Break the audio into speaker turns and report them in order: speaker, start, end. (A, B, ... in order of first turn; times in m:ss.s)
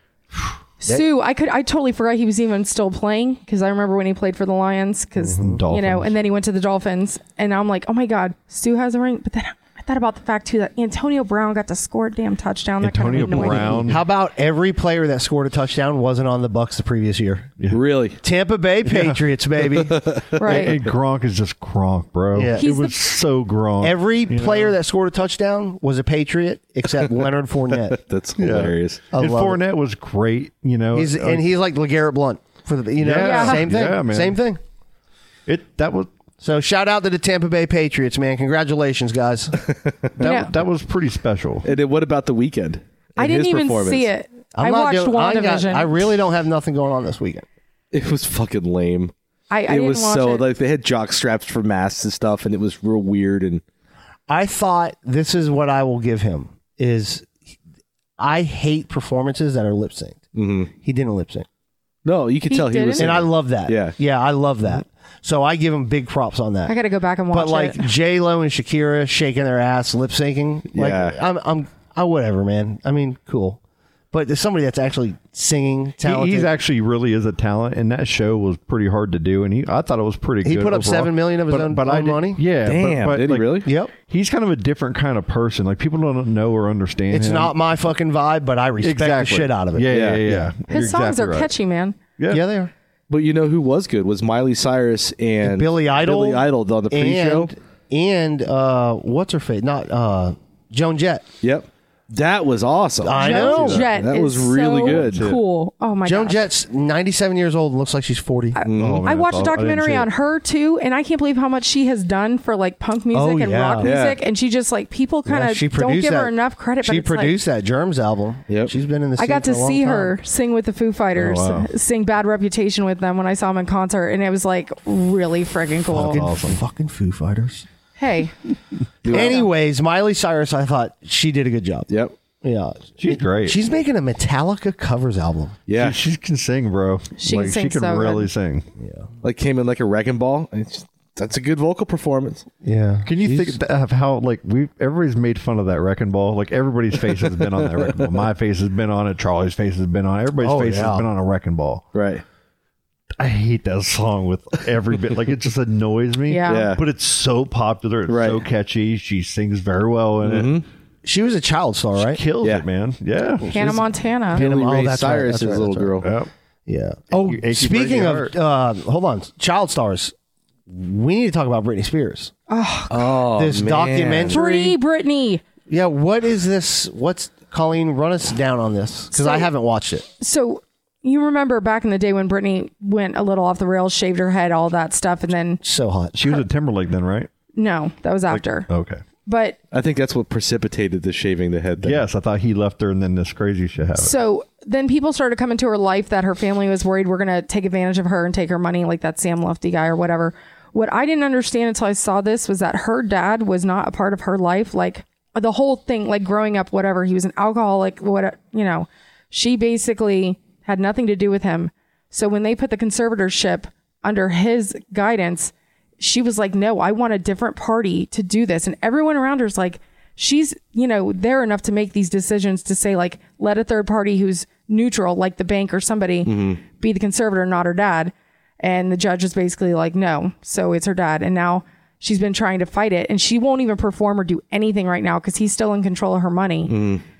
0:00.8-0:13.8 A
0:05.2-0:05.6 B
0:05.4-0:06.2 C
0:12.8-0:14.0 C
0:13.4-0:17.5 B
0:17.7-0:18.2 D
0:18.2-0:20.0 B
0:18.8-0:19.2 C
0:19.9-0:20.7 D
0:20.4-0:20.7 A
0:20.4-0:24.7 C
0:22.3-0:22.6 B
0:22.6-0:23.0 A
0:23.8-0:28.0 B
0:27.9-0:29.0 D
0:28.4-0:31.5 C
0:29.1-0:29.6 B
0:30.9-0:34.6 B
0:33.0-0:34.4 C
0:33.2-0:33.7 A
0:35.5-0:36.1 C
0:36.4-0:39.6 B
0:40.2-0:41.7 C
0:40.2-0:40.5 A
0:41.6-0:44.1 D
0:43.2-0:46.1 A
0:44.5-0:47.4 B
0:47.9-0:49.1 D
0:49.5-0:50.4 A
0:49.7-0:53.6 D
0:54.3-0:57.3 B
0:58.2-1:01.4 B
1:00.3-1:00.7 D
1:02.0-1:03.9 D
1:02.5-1:03.2 A
1:03.0-1:06.7 B
1:06.7-1:07.8 A
1:07.3-1:13.6 B
1:10.7-1:11.2 D
1:14.1-1:16.5 B
1:16.0-1:27.5 C
1:20.4-1:22.4 B
1:22.6-1:23.7 D
1:23.6-1:23.9 B
1:27.1-1:30.5 B
1:28.8-1:31.5 C
1:29.9-1:30.2 D
1:30.7-1:32.0 A
1:32.2-1:32.4 C
1:32.3-1:32.7 B
1:33.1-1:37.5 D
1:35.4-1:41.2 B
1:41.4-1:45.3 D
1:43.0-1:43.8 B
1:43.2-1:46.4 A
1:44.8-1:45.4 C
1:46.0-1:48.6 B
1:48.5-1:57.4 A
1:48.6-1:49.0 D
1:48.7-1:50.1 C
1:53.1-1:53.9 B
1:53.8-1:54.2 D
1:55.2-2:00.2 B
1:59.2-2:06.2 A
2:01.1-2:01.7 C
2:05.9-2:06.6 C
2:06.0-2:07.7 B
2:08.0-2:08.3 A
2:09.0-2:09.5 D
2:09.1-2:11.9 B
2:09.1-2:09.4 A
2:11.9-2:12.1 D
2:12.4-2:15.6 B
2:13.0-2:13.6 C
2:15.7-2:16.0 D
2:15.8-2:18.7 C
2:17.2-2:18.3 A
2:18.8-2:19.1 B
2:19.2-2:22.5 D
2:22.6-2:23.4 B
2:23.0-2:31.8 C
2:27.5-2:28.1 D
2:30.4-2:31.0 B
2:31.9-2:32.2 D
2:33.2-2:40.6 C
2:36.3-2:36.7 A
2:36.5-2:36.8 D
2:38.1-2:38.4 D
2:40.2-2:40.6 D
2:41.0-2:42.2 B
2:42.0-2:43.7 C
2:43.4-2:43.8 B
2:43.5-2:44.4 A
2:44.3-2:46.0 B
2:44.3-2:46.1 D
2:46.0-2:46.3 C
2:46.6-2:50.1 B
2:47.1-2:48.4 C
2:50.7-2:52.3 B
2:52.5-2:52.9 A
2:52.9-2:54.6 D
2:53.4-2:54.7 B
2:54.3-2:55.4 A
2:55.7-3:00.1 B
2:59.1-2:59.5 A
3:00.2-3:05.6 A
3:05.6-3:06.1 B
3:06.1-3:07.3 C
3:07.5-3:08.7 A
3:08.7-3:09.0 C
3:09.2-3:09.6 A
3:09.7-3:12.0 D
3:11.8-3:14.1 C
3:14.0-3:56.7 A
3:46.2-3:46.6 D
3:56.7-3:57.0 D